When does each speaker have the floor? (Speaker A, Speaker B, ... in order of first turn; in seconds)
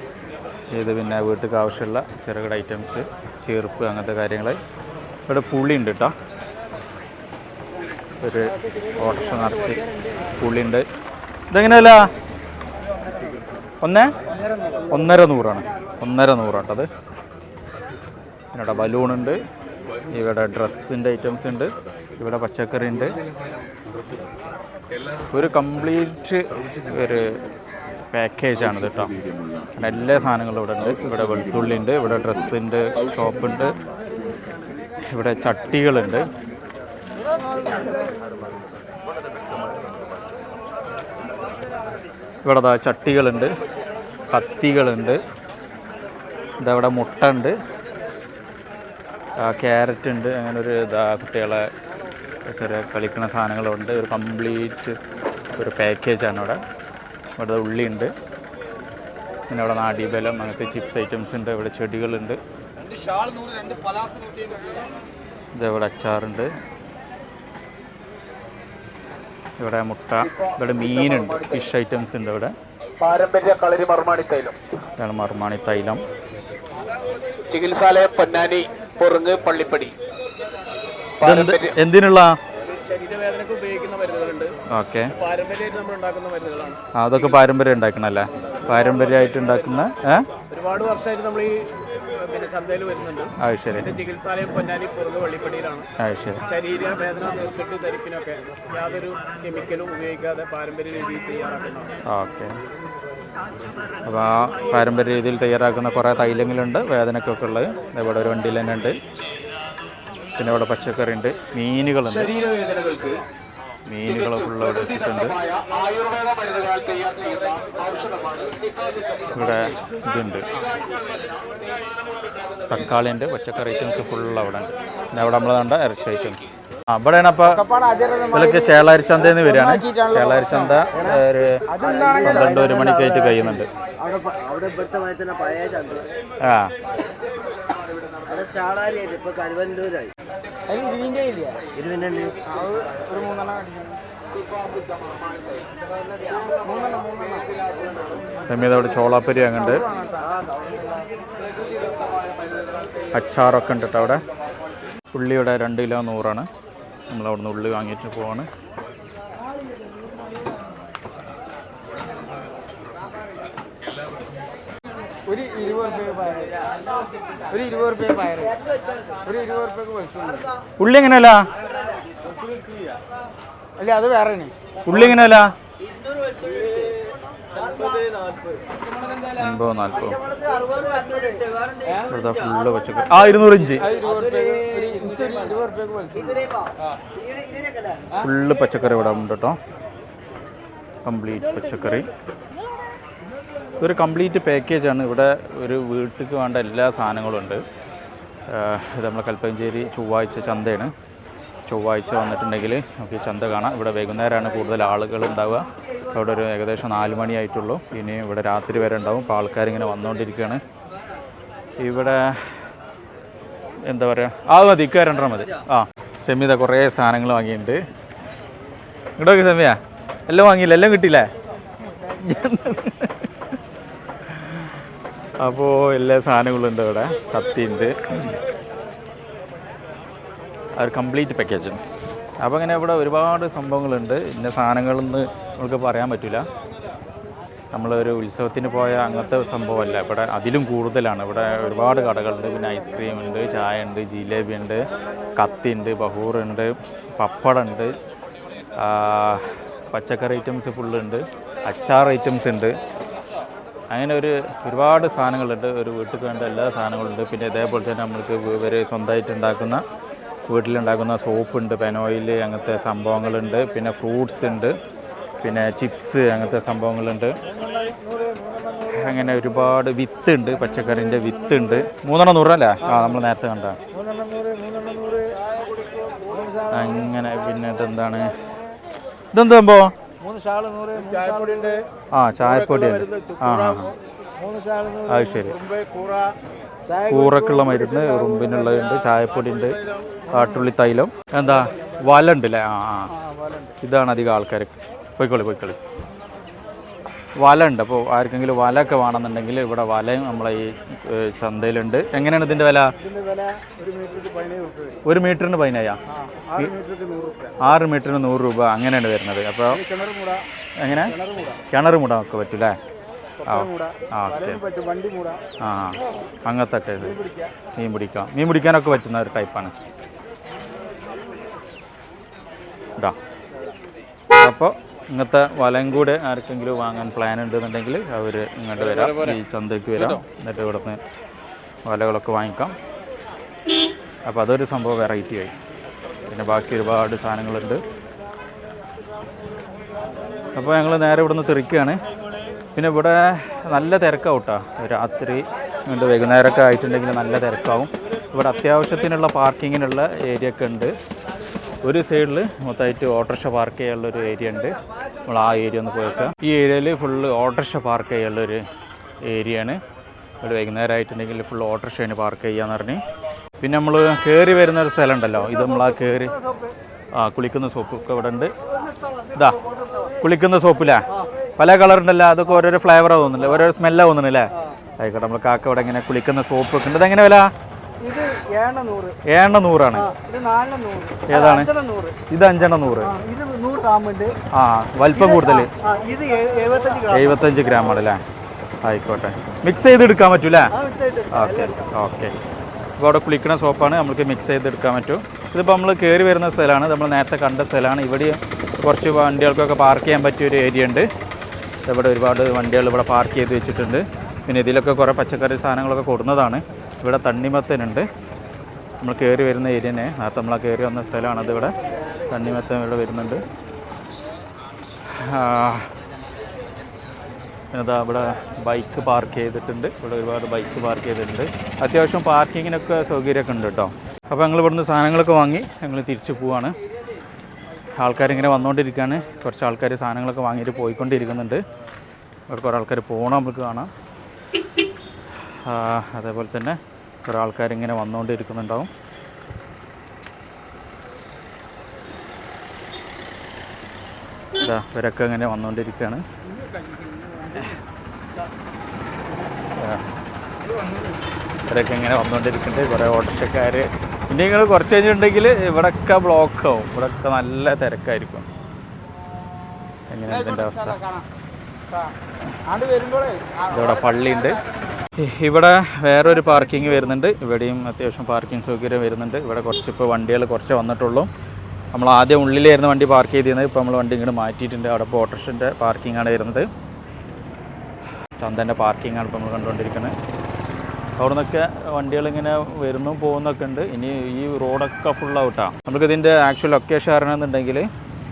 Speaker A: 0.7-4.6, 5.3-6.1, 8.2-9.8, 10.4-10.9, 11.5-12.1, 13.8-14.2, 14.9-16.9, 18.5-19.4, 20.1-23.2, 25.3-27.3, 28.1-29.1, 29.8-33.8, 35.1-36.3, 42.4-43.5, 44.3-45.2, 46.6-47.6, 49.4-51.7, 52.5-55.0, 55.5-56.6, 57.4-58.1, 59.5-62.4, 65.5-66.5, 69.6-72.5, 75.0-76.0, 81.2-82.4, 84.7-85.1, 86.9-90.3, 93.4-93.9, 96.0-96.4, 102.1-102.6, 104.0-109.0, 110.4-112.5, 113.9-115.4, 119.3-120.5, 122.7-127.6, 128.3-131.6, 132.2-133.7, 136.4-136.7, 148.4-149.9, 153.1-154.2, 155.1-156.5, 157.1-158.5, 170.8-171.5, 174.9-175.5, 179.3-180.2, 182.0-183.9, 188.2-189.6, 191.0-192.1, 193.8-197.6, 198.5-200.9, 201.7-210.6, 211.8-212.6, 213.8-217.8, 219.2-221.3, 222.0-223.3, 224.3-224.7, 225.4-228.4, 230.8-231.8, 232.4-236.4, 237.7-247.9, 248.8-252.8, 253.9-259.8, 260.5-264.8, 265.4-267.4, 268.9-273.8, 276.7-278.3, 279.3-279.9, 282.1-283.9, 285.1-285.6, 287.1-289.8, 290.3-293.1, 293.8-295.8, 297.4-302.9, 305.1-306.0, 307.6-309.8, 310.8-311.2, 311.7-312.8, 313.4-314.6, 315.6-317.2, 317.7-319.7, 324.4-331.0, 331.9-332.8, 334.3-335.5, 336.3-337.8, 340.5-342.0, 342.8-350.9, 351.8-354.8, 355.3-358.6, 359.2-359.8, 360.4-363.0, 363.6-366.4, 367.1-368.5, 369.3-369.6, 370.2-377.5, 379.3-380.1, 381.3-381.7, 382.3-383.1, 384.5-385.7, 387.0-388.2, 388.8-390.8, 391.3-392.4, 393.0-401.1, 401.9-408.1, 409.0-411.7, 412.3-413.4, 415.1-415.9, 417.7-426.8, 428.0-431.6, 432.5-433.9, 435.5-438.9, 444.6-446.2, 447.5-447.8, 449.8-450.1, 451.7-458.5, 460.1-461.0, 463.7-464.6, 465.2-471.3, 471.9-476.7, 478.4-480.1, 481.2-487.9
Speaker B: 63.1-64.0, 78.0-79.7, 112.6-113.2, 115.7-119.2, 180.7-181.3
Speaker C: 73.0-74.5, 77.5-79.8, 82.6-84.5, 85.2-87.5, 88.6-89.9, 90.4-95.9, 96.5-101.9, 275.9-276.4, 280.9-281.8, 282.4-283.9, 285.6-286.4, 289.5-290.2, 303.0-304.9, 306.9-307.2, 328.8-329.4, 330.0-330.2
Speaker D: 127.5-130.9, 131.7-133.2, 140.7-141.6, 142.5-144.0, 146.5-147.6, 149.6-150.9, 165.3-166.6, 167.5-168.6, 169.2-170.5, 173.8-174.5, 183.8-186.5, 267.5-269.1, 271.2-271.6, 272.8-273.2, 273.9-275.4, 276.3-277.0, 280.2-281.7, 284.4-285.5, 286.9-288.8, 293.1-293.8, 303.1-304.9, 306.1-307.6, 309.7-310.4, 311.1-311.6, 313.4-315.4, 317.1-317.5, 378.0-379.2, 380.0-382.2, 383.1-384.4, 385.2-387.6, 390.8-391.9, 446.5-447.6, 450.7-451.2, 460.3-461.3, 461.9-462.1, 462.7-464.8
Speaker E: 130.9-131.2, 131.8-136.1, 138.3-140.1, 141.8-142.4